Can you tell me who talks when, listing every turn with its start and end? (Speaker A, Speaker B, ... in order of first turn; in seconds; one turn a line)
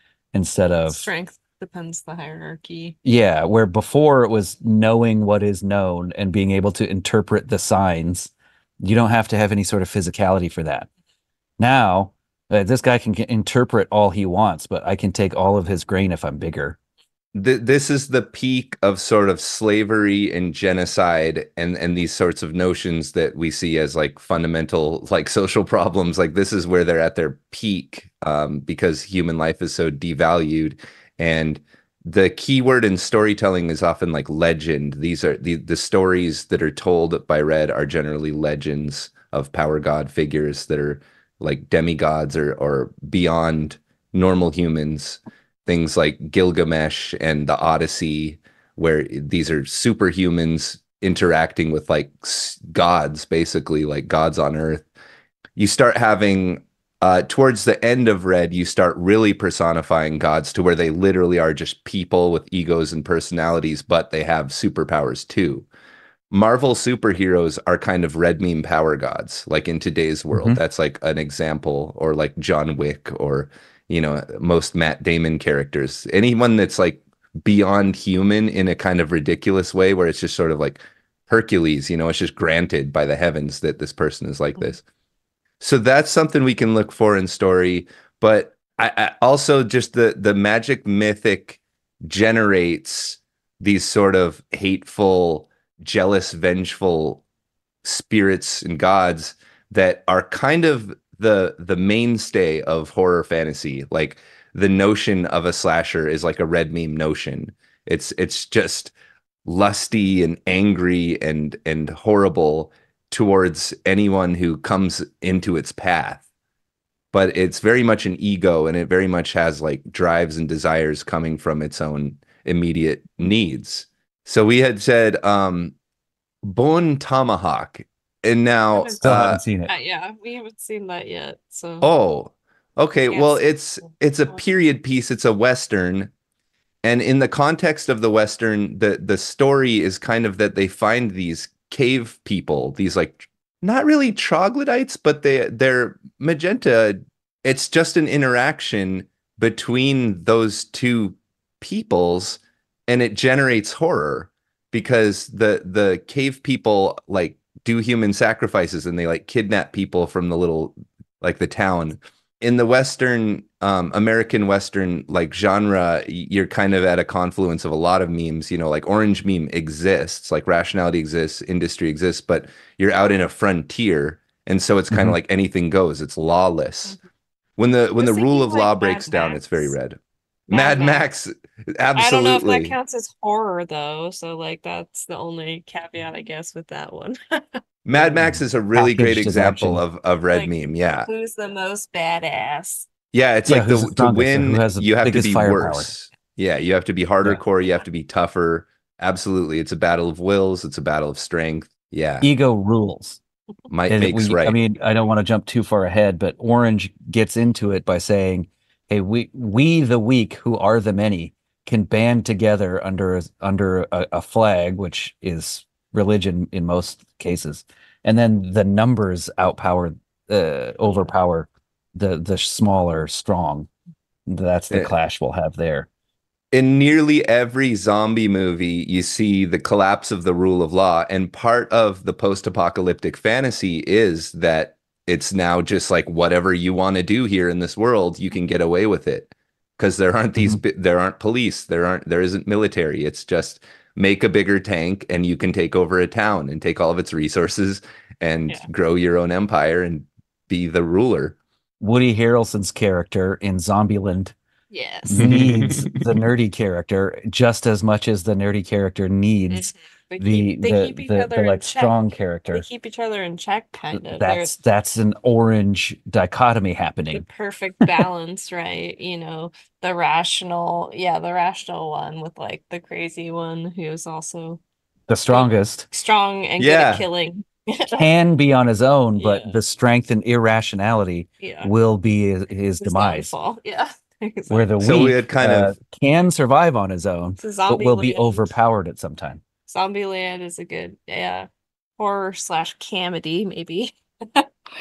Speaker A: 0.3-1.1
Speaker B: 0.8-3.0
Speaker A: 3.0-10.9
Speaker A: 11.6-16.8
Speaker C: 17.3-54.9
Speaker C: 55.5-65.7
Speaker C: 66.3-84.8
Speaker A: 70.3-70.6
Speaker C: 85.6-97.2
Speaker C: 97.8-108.9
Speaker C: 109.4-116.2
Speaker C: 117.1-125.7
Speaker C: 126.4-129.4
Speaker B: 128.7-131.9
Speaker A: 129.0-129.7
Speaker C: 131.8-136.1
Speaker B: 133.1-133.4
Speaker C: 136.8-176.9
Speaker C: 177.6-182.7
Speaker B: 178.0-179.7
Speaker B: 180.5-181.0
Speaker B: 181.9-187.4
Speaker C: 187.8-191.1
Speaker A: 188.2-189.8
Speaker B: 190.3-192.9
Speaker C: 193.1-202.3
Speaker A: 193.4-195.9
Speaker A: 202.2-203.2
Speaker C: 203.7-204.6
Speaker A: 203.9-223.7
Speaker A: 224.2-225.9
Speaker C: 226.5-251.3
Speaker A: 251.8-254.3
Speaker B: 254.7-255.4
Speaker A: 255.1-262.6
Speaker C: 255.1-256.2
Speaker B: 259.5-262.0
Speaker B: 262.5-264.5
Speaker A: 263.9-267.2
Speaker B: 267.1-274.6
Speaker A: 275.1-275.9
Speaker B: 275.3-278.1
Speaker C: 276.6-277.0
Speaker A: 277.9-283.3
Speaker B: 279.2-279.6
Speaker B: 281.4-281.7
Speaker B: 282.8-284.7
Speaker A: 284.5-289.4
Speaker C: 284.8-285.7
Speaker B: 287.4-288.5
Speaker B: 289.7-294.5